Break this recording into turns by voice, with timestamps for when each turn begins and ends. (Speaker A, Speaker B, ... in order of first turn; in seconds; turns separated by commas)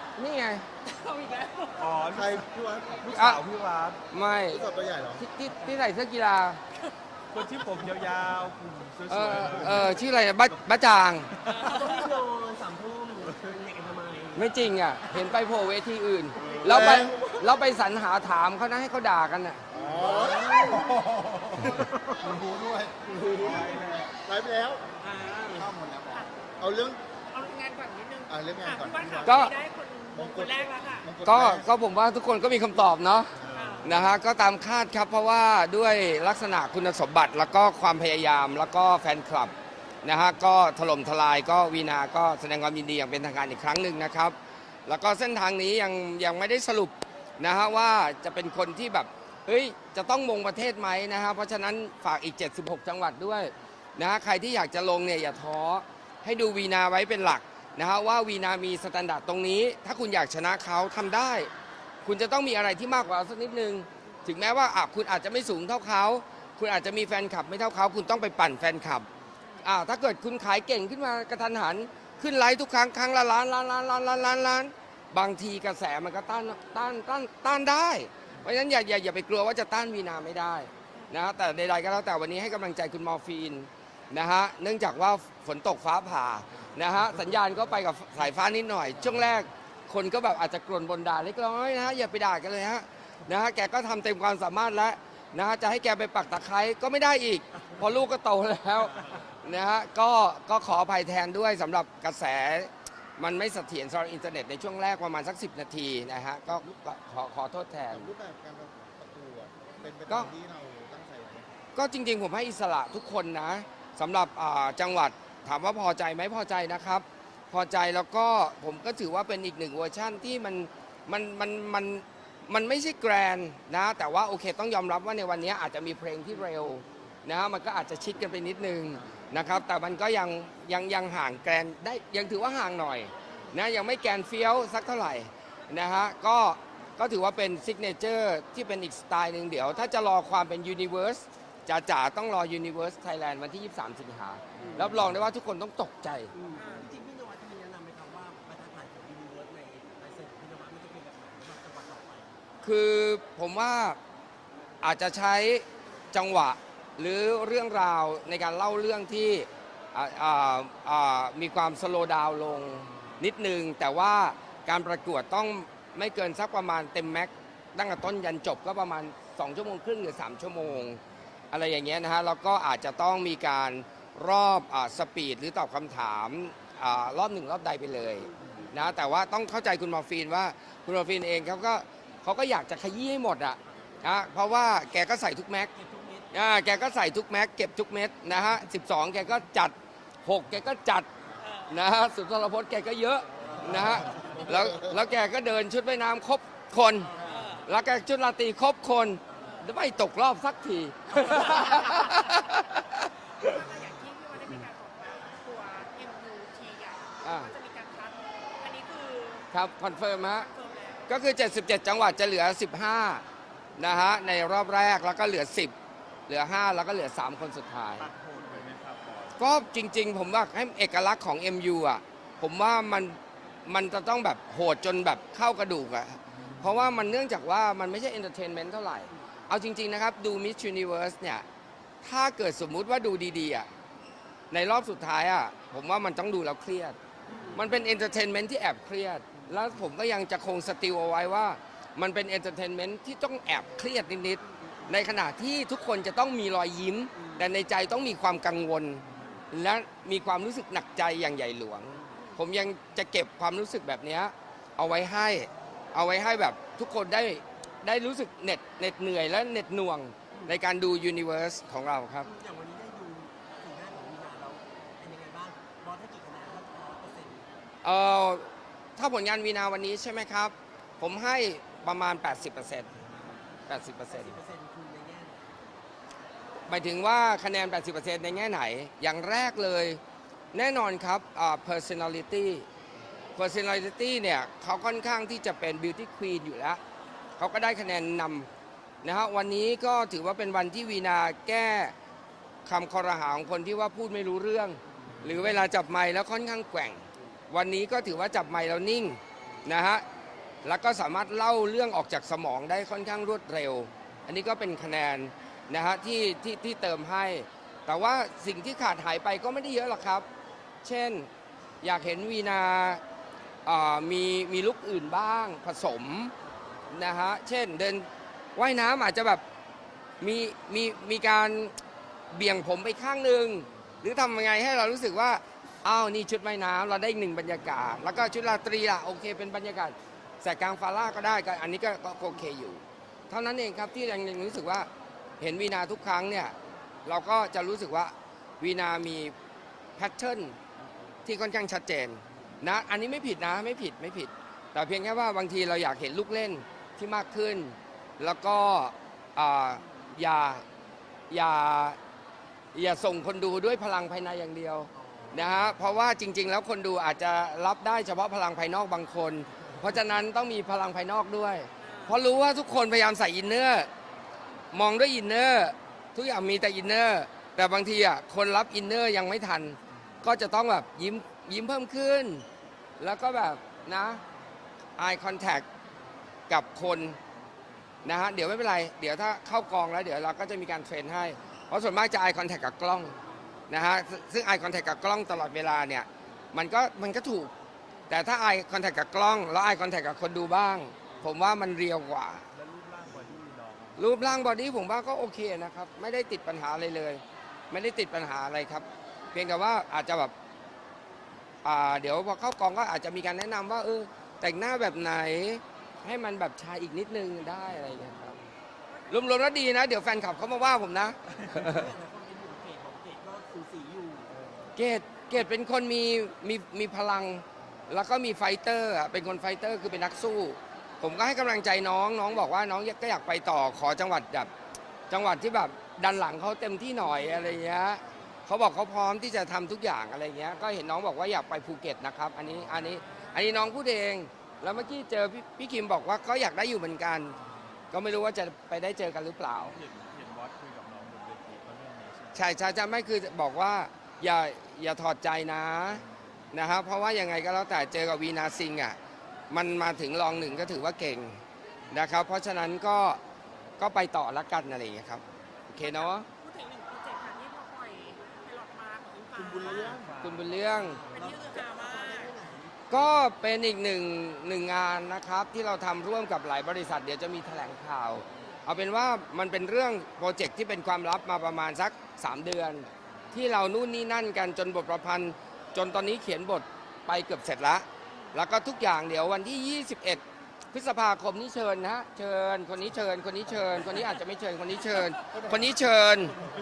Speaker A: 0.2-0.7, Speaker B: 0.8-2.1, Speaker C: 1.8-4.0, Speaker D: 2.1-3.1, Speaker A: 3.1-3.4, Speaker A: 4.1-4.6, Speaker D: 4.5-5.2, Speaker A: 5.2-6.6, Speaker C: 7.3-9.9, Speaker A: 9.1-11.3, Speaker E: 11.5-14.5, Speaker A: 14.3-19.6, Speaker D: 16.6-17.2, Speaker D: 19.7-24.9, Speaker C: 19.8-20.4, Speaker E: 20.0-21.0, Speaker E: 23.1-23.8, Speaker C: 23.3-24.1, Speaker B: 25.0-26.3, Speaker D: 25.5-27.0, Speaker B: 27.3-31.1, Speaker D: 28.3-29.4, Speaker A: 29.2-29.5, Speaker D: 30.1-31.7, Speaker A: 31.2-33.3, Speaker D: 33.3-33.9, Speaker B: 33.5-33.9, Speaker A: 33.8-61.5, Speaker A: 62.0-69.1, Speaker A: 69.6-108.1, Speaker D: 107.9-111.5, Speaker A: 111.8-146.3, Speaker E: 144.6-145.0, Speaker E: 146.3-152.4, Speaker B: 146.6-146.9, Speaker A: 152.6-154.0, Speaker A: 154.8-171.0, Speaker A: 171.5-185.7, Speaker E: 185.7-186.3, Speaker A: 186.3-189.7, Speaker A: 190.2-191.1, Speaker B: 191.4-191.8, Speaker A: 191.7-197.1, Speaker E: 193.4-194.6, Speaker E: 197.1-197.6, Speaker B: 197.2-197.7, Speaker A: 197.7-203.5, Speaker E: 199.3-199.6, Speaker B: 199.4-199.7, Speaker B: 201.7-202.3, Speaker B: 203.4-211.2, Speaker A: 207.2-207.5, Speaker A: 209.5-210.5, Speaker A: 211.1-213.2, Speaker A: 213.8-215.7, Speaker A: 216.3-218.1, Speaker C: 218.0-219.4, Speaker A: 219.4-231.4, Speaker A: 232.0-233.7, Speaker A: 234.5-237.0, Speaker E: 237.3-237.7, Speaker A: 237.6-262.3, Speaker E: 244.5-244.9, Speaker E: 247.2-247.5, Speaker E: 262.2-267.5, Speaker A: 267.8-272.9, Speaker A: 273.7-274.4, Speaker E: 274.1-275.6, Speaker A: 276.7-280.0, Speaker A: 280.5-282.6, Speaker A: 283.4-286.8, Speaker A: 287.4-288.5, Speaker A: 289.0-291.9, Speaker A: 292.7-300.0, Speaker A: 300.6-310.3, Speaker A: 310.8-311.3, Speaker A: 311.8-313.0, Speaker A: 313.7-316.3, Speaker A: 316.9-319.4, Speaker A: 320.2-321.8, Speaker A: 322.3-334.9, Speaker A: 335.4-336.5, Speaker A: 337.1-339.3, Speaker A: 340.0-340.6, Speaker A: 341.3-350.6, Speaker A: 351.3-352.0, Speaker A: 352.7-363.9, Speaker E: 355.0-355.5, Speaker B: 361.8-362.2, Speaker A: 364.7-372.4, Speaker A: 373.0-374.2, Speaker A: 375.0-375.7, Speaker A: 376.5-377.2, Speaker A: 378.1-383.1, Speaker A: 383.7-387.5, Speaker A: 388.1-392.4, Speaker C: 392.5-394.1, Speaker A: 394.0-400.3, Speaker A: 401.6-408.4, Speaker B: 408.9-409.2, Speaker A: 409.1-411.9, Speaker E: 411.5-414.3, Speaker A: 414.8-424.5, Speaker A: 425.1-437.4, Speaker B: 432.8-433.5, Speaker A: 437.9-439.8, Speaker C: 439.6-442.4, Speaker A: 442.4-449.0, Speaker A: 449.5-451.4, Speaker A: 451.9-453.2, Speaker A: 453.8-456.3, Speaker B: 455.8-460.0, Speaker D: 459.4-460.2, Speaker C: 459.6-460.5, Speaker A: 460.2-461.0, Speaker E: 460.7-463.0, Speaker B: 461.1-462.3, Speaker A: 462.9-486.4, Speaker B: 478.1-478.4, Speaker D: 485.3-485.7